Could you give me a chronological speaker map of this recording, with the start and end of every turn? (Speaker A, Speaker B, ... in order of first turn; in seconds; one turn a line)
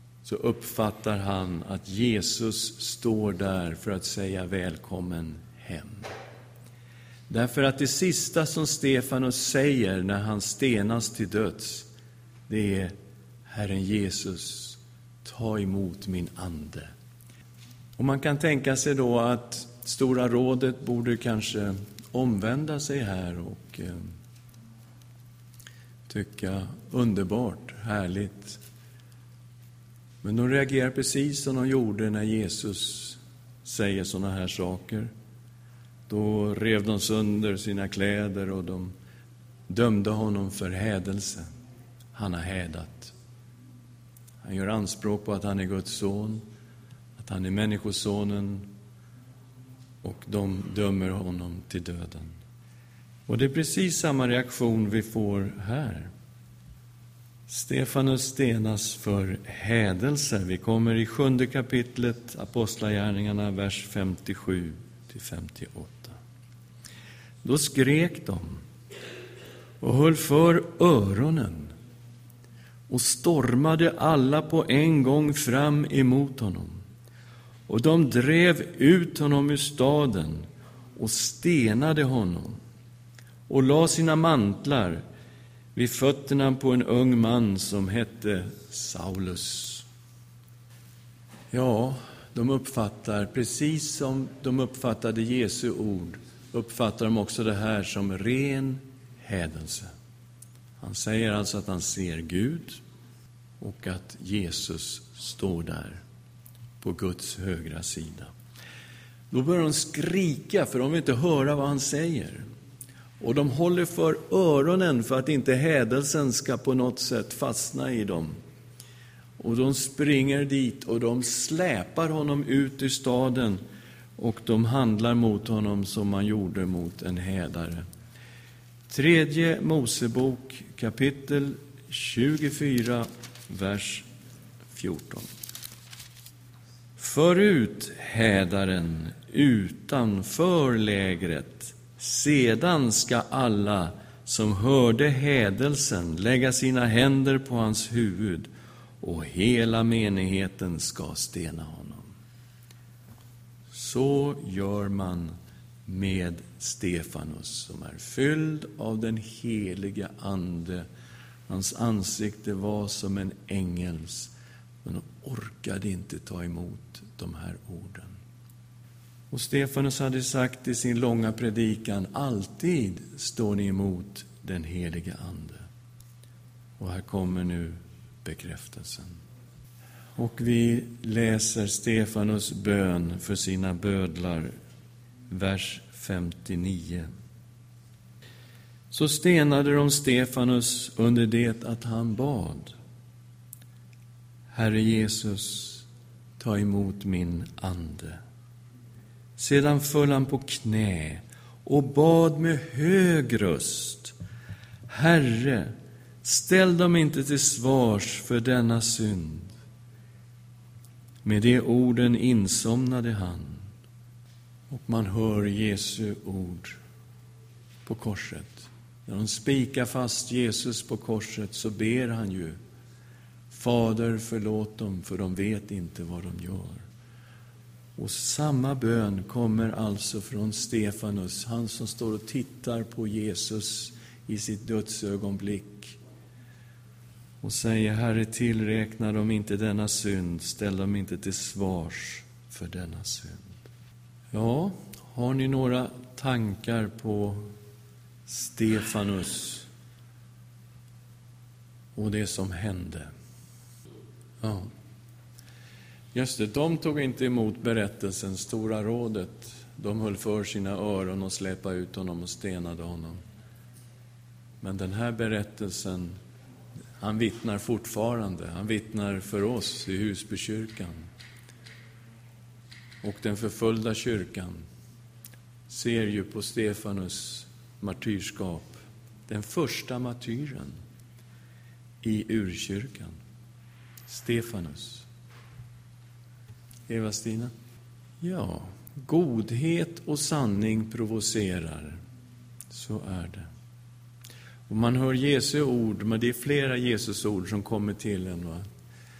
Speaker A: 0.2-6.1
Speaker A: 7.3-11.9
Speaker A: 12.5-12.9
Speaker A: 13.4-16.9
Speaker A: 18.0-24.1
Speaker A: 26.1-28.6
Speaker A: 30.2-35.1
Speaker A: 36.1-38.9
Speaker A: 39.7-41.5
Speaker A: 42.1-43.1
Speaker A: 44.4-46.5
Speaker A: 47.2-48.7
Speaker A: 50.0-52.4
Speaker A: 53.3-56.1
Speaker A: 57.5-66.2
Speaker A: 67.4-68.6
Speaker A: 69.8-71.7
Speaker A: 72.9-76.8
Speaker A: 77.7-82.6
Speaker A: 83.5-85.0
Speaker A: 85.7-89.8
Speaker A: 91.5-99.9
Speaker A: 100.8-102.8
Speaker A: 103.6-106.0
Speaker A: 106.8-108.3
Speaker A: 109.3-112.4
Speaker A: 113.2-118.4
Speaker A: 119.4-123.6
Speaker A: 124.2-127.8
Speaker A: 128.9-134.1
Speaker A: 134.7-135.3
Speaker A: 137.0-152.1
Speaker A: 153.7-155.3
Speaker A: 155.8-160.8
Speaker A: 161.5-164.3
Speaker A: 164.8-168.2
Speaker A: 169.3-175.7
Speaker A: 176.8-179.2
Speaker A: 180.2-184.5
Speaker A: 185.3-187.1
Speaker A: 188.9-192.7
Speaker A: 194.5-195.9
Speaker A: 196.4-198.2
Speaker A: 199.4-204.1
Speaker A: 204.9-209.5
Speaker A: 211.2-213.7
Speaker A: 214.7-216.8
Speaker A: 217.8-222.6
Speaker A: 223.5-226.8
Speaker A: 228.0-236.0
Speaker A: 237.4-243.6
Speaker A: 244.3-247.4
Speaker A: 248.3-249.7
Speaker A: 251.9-253.1
Speaker A: 254.4-254.7
Speaker A: 256.1-263.2
Speaker A: 264.6-266.2
Speaker A: 267.0-271.1
Speaker A: 273.0-274.6
Speaker A: 275.7-280.8
Speaker A: 282.0-283.2
Speaker A: 284.1-285.1
Speaker A: 286.9-287.5
Speaker A: 288.2-292.0
Speaker A: 292.7-293.5
Speaker A: 294.7-298.6